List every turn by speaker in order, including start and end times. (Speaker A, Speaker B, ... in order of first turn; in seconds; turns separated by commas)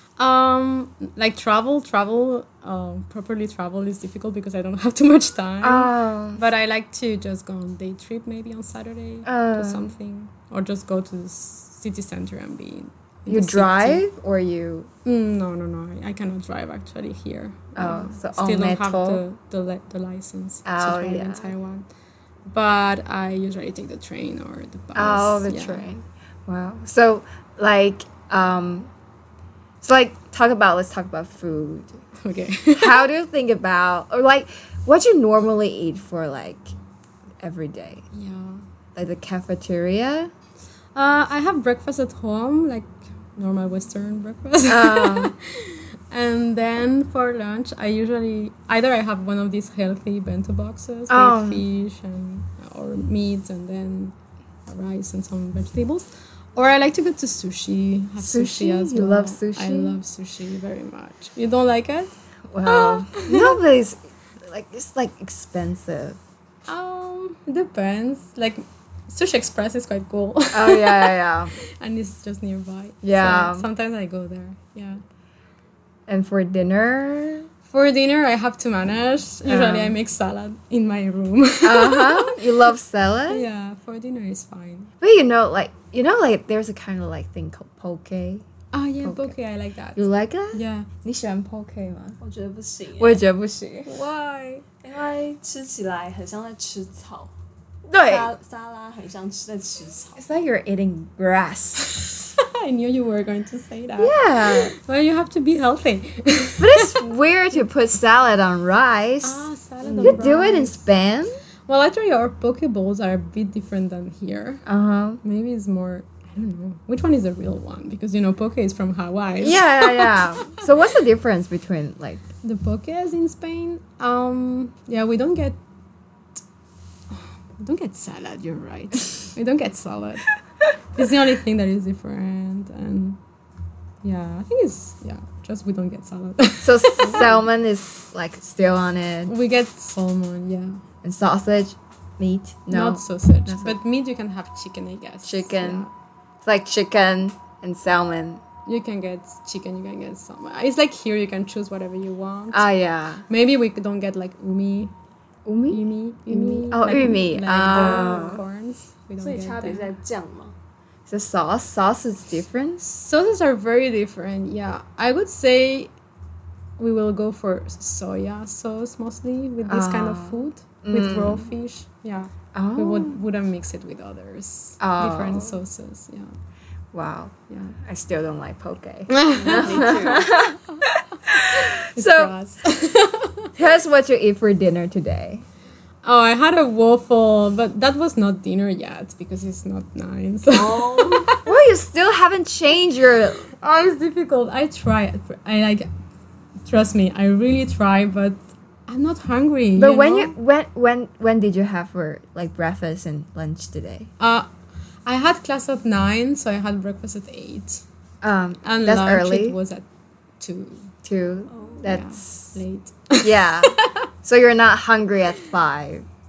Speaker A: 0.2-14.0, Speaker B: 5.6-6.4, Speaker B: 9.2-9.9, Speaker B: 13.3-14.9, Speaker A: 15.0-21.9, Speaker B: 17.8-19.2, Speaker B: 20.6-21.5, Speaker A: 22.5-25.9, Speaker B: 24.9-28.9, Speaker B: 29.8-32.0, Speaker A: 32.2-33.1, Speaker B: 32.7-36.7, Speaker B: 37.4-38.0, Speaker A: 38.1-38.6, Speaker B: 38.9-40.3, Speaker A: 40.9-54.1, Speaker B: 44.7-45.3, Speaker B: 51.1-51.6, Speaker A: 54.7-62.1, Speaker B: 58.2-60.0, Speaker B: 62.5-66.2, Speaker A: 62.6-63.6, Speaker A: 66.7-75.0, Speaker B: 70.5-71.5, Speaker B: 73.0-73.7, Speaker B: 76.1-77.5, Speaker A: 77.7-82.5, Speaker B: 79.4-80.0, Speaker B: 81.6-83.4, Speaker A: 83.3-84.9, Speaker B: 85.0-88.4, Speaker A: 88.7-90.9, Speaker B: 89.0-89.3, Speaker B: 90.0-92.2, Speaker C: 92.2-93.2, Speaker B: 93.0-94.0, Speaker A: 93.9-94.6, Speaker C: 94.8-97.3, Speaker B: 97.9-98.3, Speaker C: 98.0-100.2, Speaker B: 100.2-102.1, Speaker A: 102.0-107.0, Speaker B: 104.0-104.7, Speaker B: 106.6-109.4, Speaker A: 109.2-110.8, Speaker B: 110.0-111.4, Speaker A: 111.7-114.6, Speaker B: 114.7-115.2, Speaker A: 115.2-120.6, Speaker B: 119.4-122.2, Speaker A: 122.4-125.6, Speaker A: 127.1-130.3, Speaker A: 130.9-133.2, Speaker A: 134.0-137.2, Speaker B: 136.6-139.3, Speaker C: 137.0-137.3, Speaker A: 139.3-140.8, Speaker B: 141.0-143.8, Speaker A: 142.7-145.9, Speaker B: 145.2-145.8, Speaker B: 146.4-148.4, Speaker A: 148.7-152.7, Speaker B: 152.5-153.2, Speaker A: 153.3-154.9, Speaker B: 155.4-158.4, Speaker A: 155.7-159.9, Speaker C: 159.2-160.5, Speaker B: 161.1-162.9, Speaker A: 162.8-165.9, Speaker A: 166.8-176.3, Speaker B: 169.6-171.5, Speaker B: 172.5-173.2, Speaker B: 174.8-175.6, Speaker B: 176.9-182.3, Speaker A: 177.5-177.7, Speaker A: 179.1-180.2, Speaker C: 179.3-180.3, Speaker A: 181.5-183.5, Speaker B: 183.6-185.4, Speaker A: 186.0-191.5, Speaker C: 190.5-191.3, Speaker B: 191.4-193.5, Speaker A: 193.6-195.9, Speaker A: 196.6-200.3, Speaker B: 199.8-204.1, Speaker A: 204.2-204.5, Speaker A: 205.1-207.8, Speaker B: 208.2-209.6, Speaker A: 208.6-209.8, Speaker A: 210.4-210.9, Speaker B: 211.0-212.6, Speaker C: 211.5-211.9, Speaker A: 211.8-214.1, Speaker B: 213.2-216.1